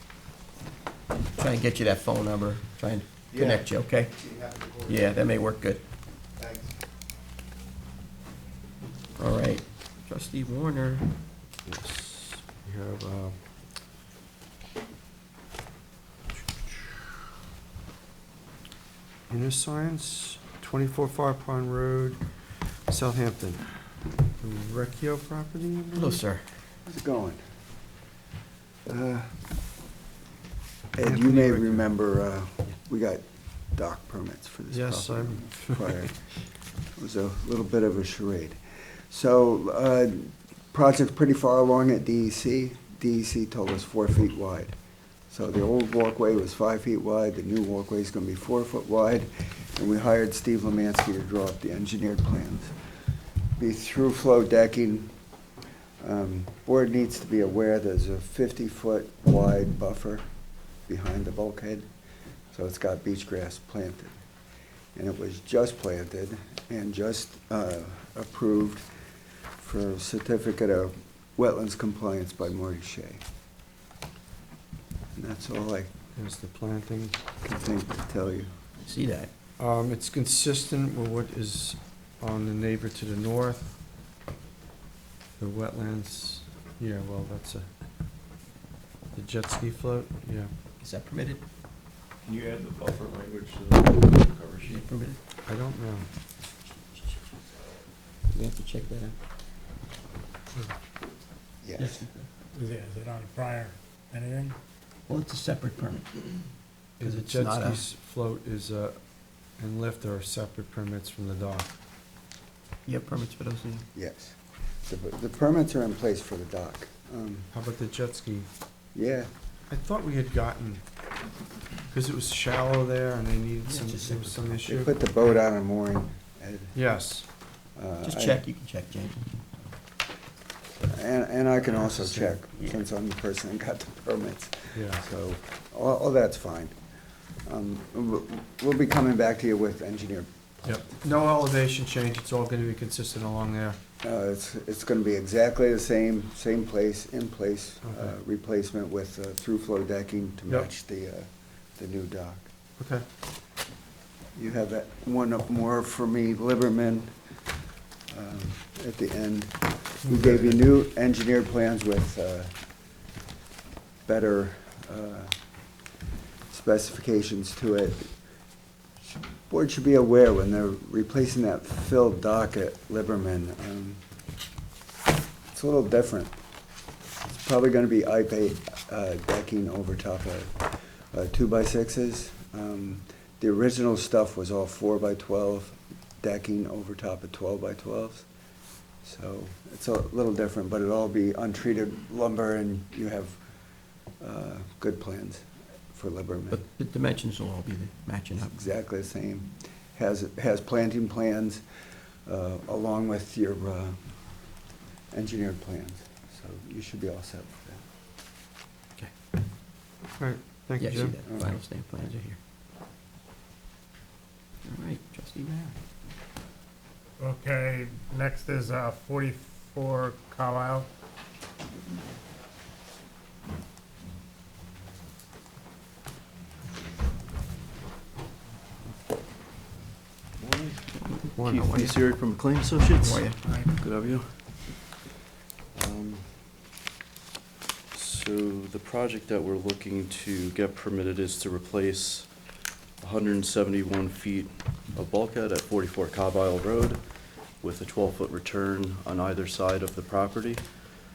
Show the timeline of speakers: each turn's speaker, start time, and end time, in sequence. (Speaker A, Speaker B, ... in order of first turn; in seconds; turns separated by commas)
Speaker A: 1.3-4.1, Speaker B: 3.3-5.1, Speaker A: 4.9-5.8, Speaker B: 6.4-6.7, Speaker A: 9.2-11.1, Speaker C: 11.7-13.4, Speaker C: 19.3-22.2, Speaker C: 22.9-23.6, Speaker C: 24.4-26.2, Speaker A: 25.9-26.4, Speaker D: 26.8-27.4, Speaker D: 28.9-29.4, Speaker D: 30.9-36.3, Speaker C: 31.0-31.8, Speaker C: 34.7-36.1, Speaker D: 37.0-38.6, Speaker D: 39.1-44.7, Speaker D: 45.3-52.7, Speaker D: 53.6-55.1, Speaker D: 56.0-60.3, Speaker D: 60.9-61.9, Speaker D: 62.5-64.1, Speaker D: 64.9-68.8, Speaker D: 69.6-73.2, Speaker D: 75.1-75.9, Speaker C: 76.2-77.2, Speaker D: 77.4-78.5, Speaker A: 78.8-79.3, Speaker C: 79.6-83.8, Speaker C: 85.4-87.7, Speaker C: 89.1-90.5, Speaker A: 90.8-91.4, Speaker E: 92.2-94.8, Speaker A: 94.6-95.2, Speaker C: 95.5-96.0, Speaker A: 98.3-99.1, Speaker D: 101.6-102.0, Speaker A: 101.8-102.2, Speaker F: 102.7-104.5, Speaker A: 105.1-106.1, Speaker C: 107.0-109.0, Speaker A: 107.0-107.8, Speaker C: 109.6-111.7, Speaker A: 112.8-113.9, Speaker D: 113.9-117.5, Speaker C: 117.5-118.5, Speaker D: 118.9-119.3, Speaker C: 119.7-120.8, Speaker C: 121.9-124.9, Speaker A: 123.7-124.4, Speaker D: 124.6-126.7, Speaker C: 126.7-127.3, Speaker D: 127.8-128.4, Speaker A: 128.0-129.2, Speaker D: 130.8-136.7, Speaker C: 131.9-132.3, Speaker C: 134.7-135.0, Speaker D: 137.4-140.7, Speaker C: 140.6-143.8, Speaker D: 144.0-152.5, Speaker C: 147.8-148.1, Speaker C: 152.8-153.0, Speaker D: 154.3-157.1, Speaker D: 158.1-162.5, Speaker C: 160.0-160.6, Speaker D: 164.1-165.3, Speaker D: 166.5-168.1, Speaker D: 169.3-174.0, Speaker D: 175.5-176.4, Speaker D: 177.3-188.2, Speaker D: 189.0-193.4, Speaker D: 194.2-196.6, Speaker A: 196.5-198.5, Speaker D: 198.4-201.6, Speaker D: 202.2-204.0, Speaker D: 205.1-207.8, Speaker C: 210.2-211.2, Speaker A: 210.8-212.4, Speaker D: 211.2-211.6, Speaker A: 214.7-215.7, Speaker F: 217.2-220.8, Speaker E: 230.4-235.0, Speaker A: 231.2-232.0, Speaker C: 231.3-231.8, Speaker A: 233.0-233.4, Speaker E: 235.7-236.5, Speaker E: 237.9-242.4, Speaker E: 243.0-247.0, Speaker E: 247.6-250.9